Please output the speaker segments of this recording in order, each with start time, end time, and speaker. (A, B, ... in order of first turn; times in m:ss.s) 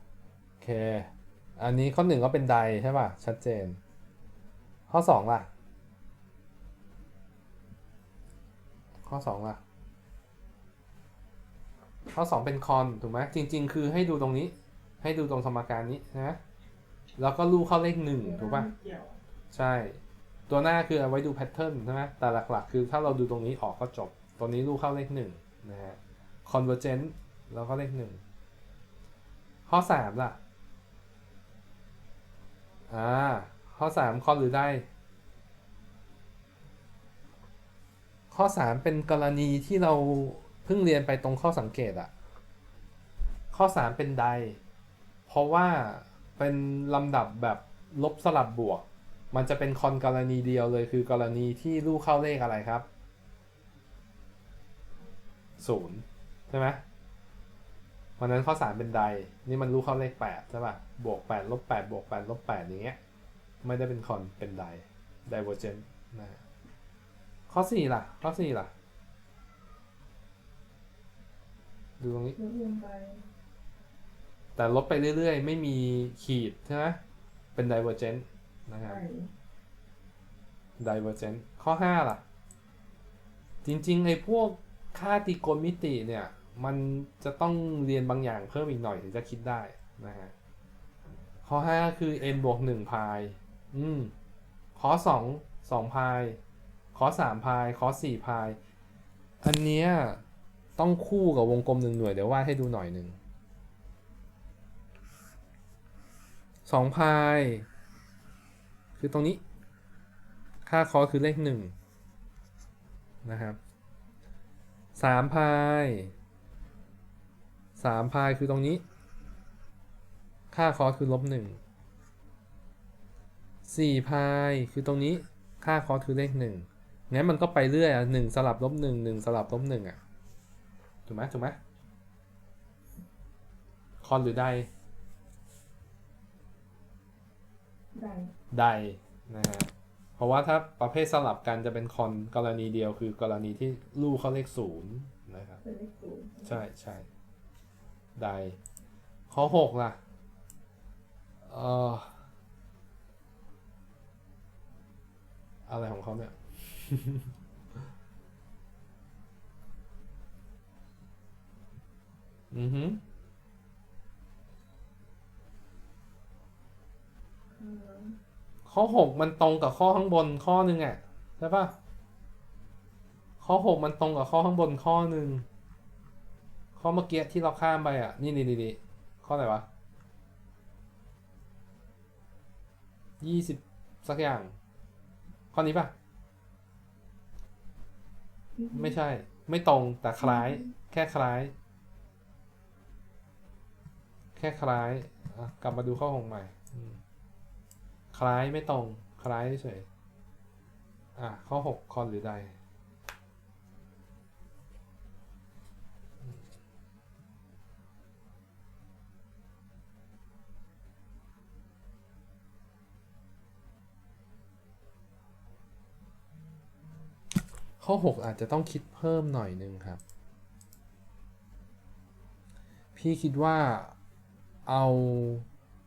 0:00.6-0:03.8 A
0:04.9-0:05.5 A
0:09.1-0:09.6 A
0:12.1-0:16.4 A
0:17.2-0:18.7 A
0:18.2-0:19.2 B
0:19.5-0:28.2 A
0:29.7-0:30.4 A
0:32.9-0:34.9 A
0:38.3-0:42.1 A
0:43.5-0:44.6 A
0:45.3-0:52.9 A
0:55.6-0:56.8 A
0:58.2-1:03.0 A
1:03.6-1:06.4 A
1:07.5-1:08.7 A
1:12.0-1:12.4 A
1:12.4-1:13.2 B
1:14.6-1:17.0 A
1:17.6-1:19.0 A
1:18.8-1:19.3 B
1:20.8-1:22.2 A
1:23.6-1:30.3 A
1:31.4-1:34.1 A
1:34.8-1:36.4 A
1:36.9-1:38.6 A
1:39.4-1:40.2 A
1:40.8-1:43.2 A
1:46.7-1:47.7 A
1:49.0-1:49.4 A
1:50.6-1:51.7 A
1:53.2-1:53.6 A
1:55.0-1:56.1 A
1:57.8-1:58.8 A
2:00.5-2:01.6 A
2:03.6-2:10.0 A
2:11.1-2:11.6 A
2:14.0-2:14.7 A
2:18.0-2:18.3 B
2:18.5-2:25.6 A
2:25.6-2:26.6 B
2:26.4-2:27.1 A
2:28.2-2:28.6 A
2:29.3-2:30.0 A
2:31.5-2:32.2 A
2:35.7-2:37.3 A
2:42.5-2:43.0 A
2:47.6-2:48.2 B
2:48.7-2:51.8 A
2:53.4-2:55.5 A
2:56.8-2:59.7 A
3:03.2-3:04.6 A
3:05.5-3:05.9 A
3:08.6-3:09.0 B
3:08.7-3:11.5 A
3:10.2-3:10.7 B
3:14.4-3:17.0 A
3:18.1-3:19.9 A
3:21.2-3:22.6 A
3:37.8-3:40.0 A
3:43.0-3:44.0 A
3:44.7-3:45.5 A